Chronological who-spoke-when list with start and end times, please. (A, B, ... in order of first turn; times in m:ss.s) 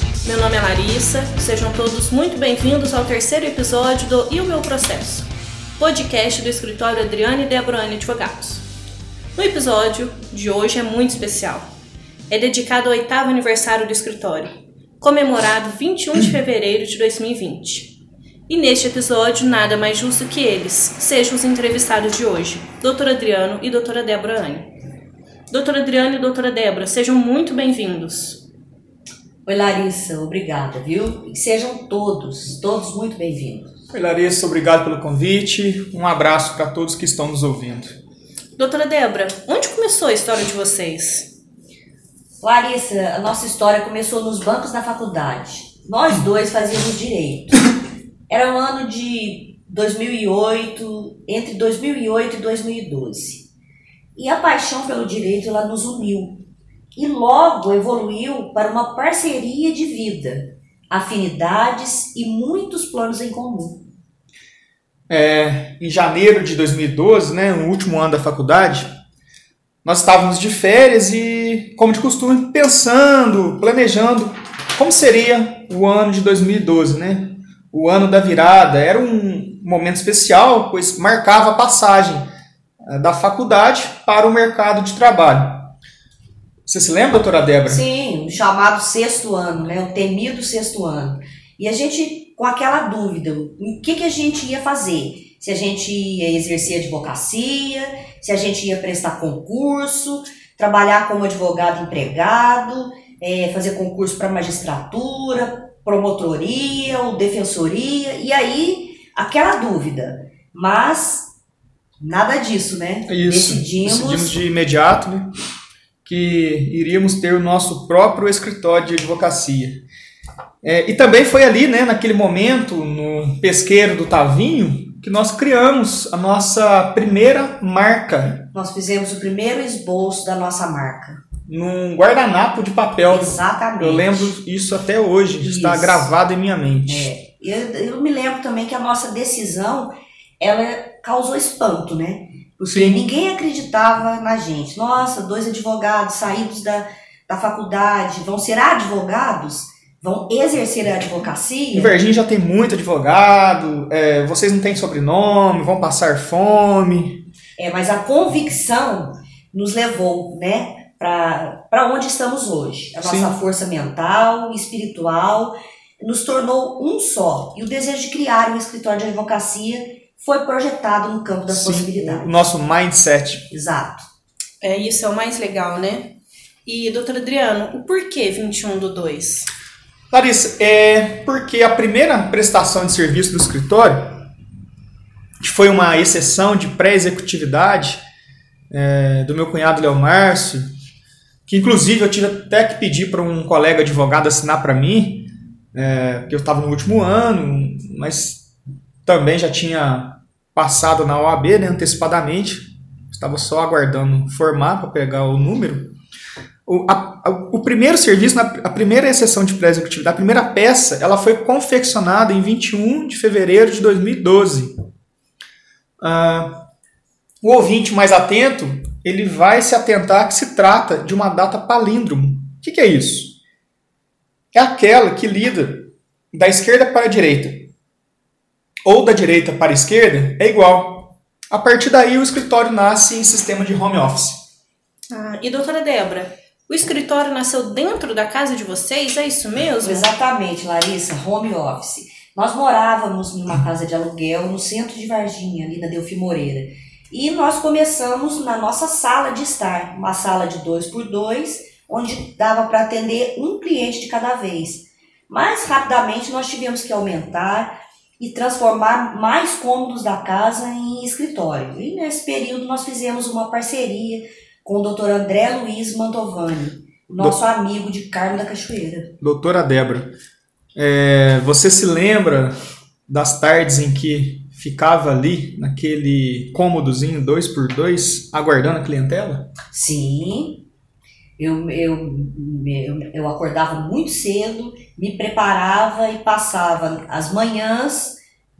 0:00.2-0:08.6 A
0:09.3-0:11.7 A
0:12.3-0:18.0 A
0:18.5-0:24.7 A
0:25.5-0:28.4 A
0:29.4-0:33.7 B
0:33.9-0:38.0 C
0:38.6-0:41.3 A
0:42.4-0:47.6 B
0:48.3-0:53.5 B
0:54.2-0:56.4 B
0:57.0-1:03.8 B
1:05.1-1:08.9 C
1:09.8-1:22.2 C
1:22.8-1:25.7 C
1:26.6-1:27.8 C
1:27.6-1:51.3 B
1:52.0-1:54.4 B
1:53.1-1:55.3 C
1:56.0-1:59.8 C
2:00.6-2:08.4 C
2:08.5-2:11.2 B
2:11.5-2:17.1 C
2:13.1-2:14.3 B
2:15.4-2:16.1 B
2:16.9-2:32.0 B
2:22.7-2:23.1 C
2:31.7-2:37.2 C
2:37.6-2:52.3 B
2:43.0-2:43.3 C
2:51.5-2:53.4 C
2:53.5-2:54.0 B
2:54.6-2:56.1 A
2:56.6-2:59.5 A
3:00.1-3:04.1 C
3:05.4-3:08.0 C
3:08.7-3:10.7 C
3:11.5-3:18.4 C
3:19.0-3:25.9 C
3:26.6-3:34.7 C
3:36.0-3:36.6 C
3:37.4-3:43.4 C
3:44.5-3:47.7 C
3:48.8-3:54.4 C
3:55.1-4:00.1 A
3:59.8-4:29.1 B
4:29.2-4:30.1 C
4:30.8-4:32.5 C
4:33.1-4:39.5 C
4:39.7-4:40.6 B
4:41.4-4:48.2 B